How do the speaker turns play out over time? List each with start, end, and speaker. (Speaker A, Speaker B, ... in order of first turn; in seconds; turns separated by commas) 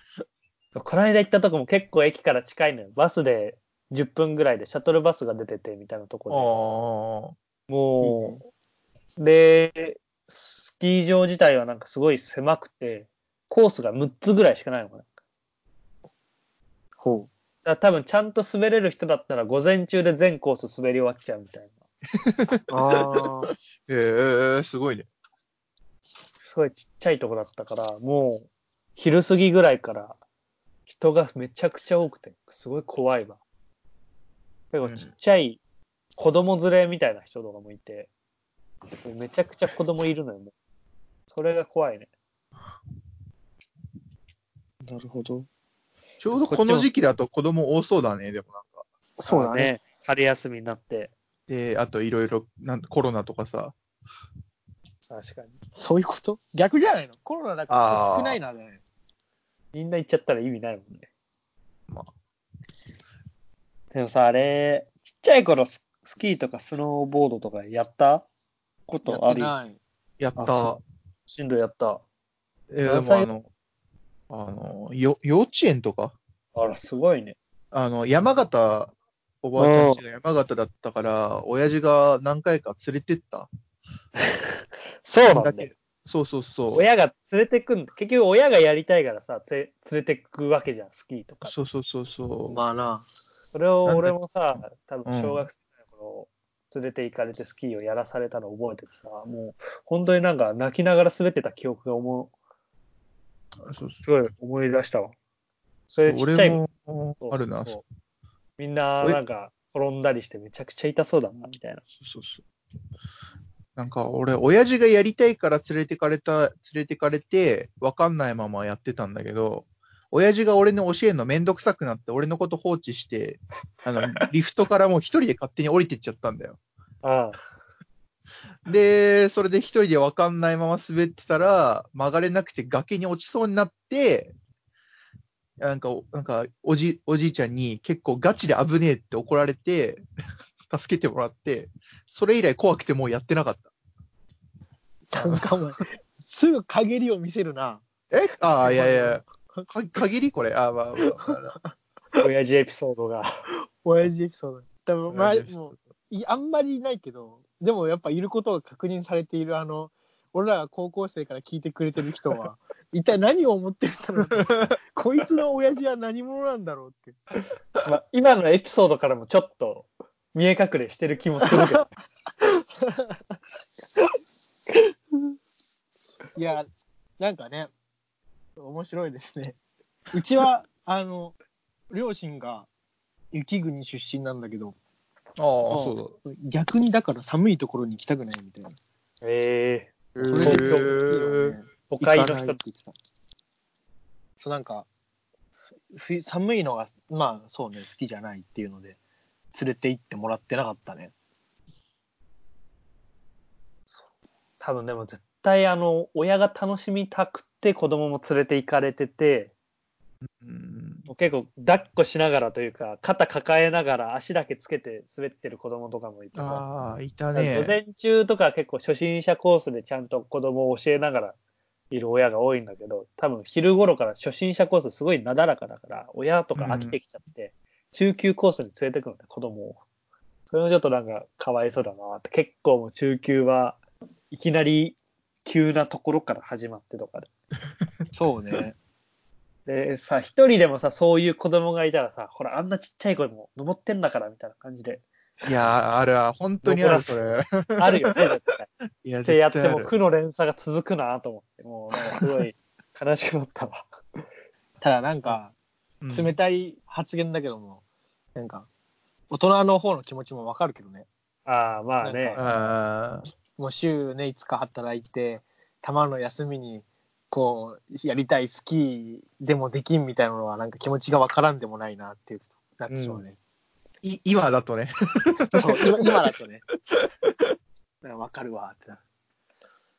Speaker A: 0.7-6.6, Speaker B: 6.3-7.3, Speaker A: 7.7-8.4, Speaker C: 8.0-8.4, Speaker A: 9.2-15.1, Speaker C: 17.0-17.3, Speaker A: 17.6-21.8, Speaker B: 22.2-25.1, Speaker C: 22.7-23.5, Speaker A: 26.4-30.2, Speaker A: 30.9-33.4, Speaker A: 34.7-35.6, Speaker A: 36.2-38.1, Speaker A: 39.0-40.5, Speaker A: 41.3-42.1, Speaker C: 44.8-45.5, Speaker B: 46.2-48.8, Speaker A: 46.4-46.9, Speaker C: 49.2-49.7, Speaker A: 49.3-51.1, Speaker B: 51.5-53.8, Speaker A: 55.1-55.5, Speaker C: 55.8-58.8, Speaker B: 57.7-58.4, Speaker A: 59.7-61.1, Speaker A: 63.9-68.3, Speaker A: 68.9-69.5, Speaker C: 69.0-69.8, Speaker B: 70.2-70.8, Speaker A: 70.4-70.7, Speaker A: 71.3-72.0, Speaker B: 72.7-73.5, Speaker A: 72.8-73.3, Speaker B: 74.3-76.1, Speaker A: 76.5-77.4, Speaker B: 77.7-83.5, Speaker A: 79.6-80.0, Speaker A: 85.0-85.7, Speaker B: 85.3-86.8, Speaker A: 86.7-91.5, Speaker B: 91.4-92.6, Speaker C: 92.5-93.1, Speaker A: 93.5-102.3, Speaker B: 93.8-95.5, Speaker B: 103.6-104.0, Speaker A: 104.0-105.1, Speaker A: 105.9-106.6, Speaker B: 106.0-107.8, Speaker A: 107.2-107.8, Speaker A: 108.6-111.8, Speaker B: 112.0-112.4, Speaker B: 113.8-126.6, Speaker A: 127.0-127.4, Speaker B: 128.6-134.3, Speaker B: 135.6-140.0, Speaker B: 140.7-143.7, Speaker C: 145.1-147.8, Speaker B: 145.2-145.6, Speaker B: 148.1-151.6, Speaker C: 148.6-149.7, Speaker C: 151.0-151.7, Speaker A: 152.2-153.3, Speaker C: 153.8-167.2, Speaker B: 155.1-155.8, Speaker A: 167.8-171.8, Speaker C: 172.8-173.2, Speaker C: 176.3-176.7, Speaker C: 177.2-177.7, Speaker C: 178.6-179.6, Speaker C: 180.1-181.3, Speaker C: 181.9-182.7, Speaker C: 183.3-184.8, Speaker B: 185.4-186.2, Speaker C: 185.7-188.7, Speaker A: 189.2-191.2, Speaker B: 190.2-191.6, Speaker C: 190.2-192.9, Speaker A: 191.9-192.6, Speaker C: 194.4-194.9, Speaker C: 195.9-199.0, Speaker C: 199.5-201.1, Speaker A: 204.6-209.5, Speaker B: 210.3-211.1, Speaker A: 211.1-216.7, Speaker B: 216.3-217.8, Speaker A: 217.3-221.3, Speaker A: 221.9-229.8, Speaker B: 226.6-226.9, Speaker A: 230.5-233.8, Speaker A: 234.3-237.3, Speaker C: 238.1-238.7, Speaker A: 239.7-245.0, Speaker B: 245.4-248.2, Speaker A: 246.6-247.2, Speaker A: 247.8-248.7, Speaker B: 249.0-249.9, Speaker A: 249.2-254.2, Speaker C: 254.8-255.5, Speaker B: 256.0-256.4, Speaker C: 256.1-257.8, Speaker C: 258.4-258.7, Speaker C: 259.3-261.1, Speaker A: 261.4-262.4, Speaker C: 262.0-262.8, Speaker B: 262.4-263.3, Speaker C: 263.6-273.4, Speaker A: 272.9-273.2, Speaker B: 274.0-276.2, Speaker C: 275.5-276.6, Speaker C: 278.0-279.0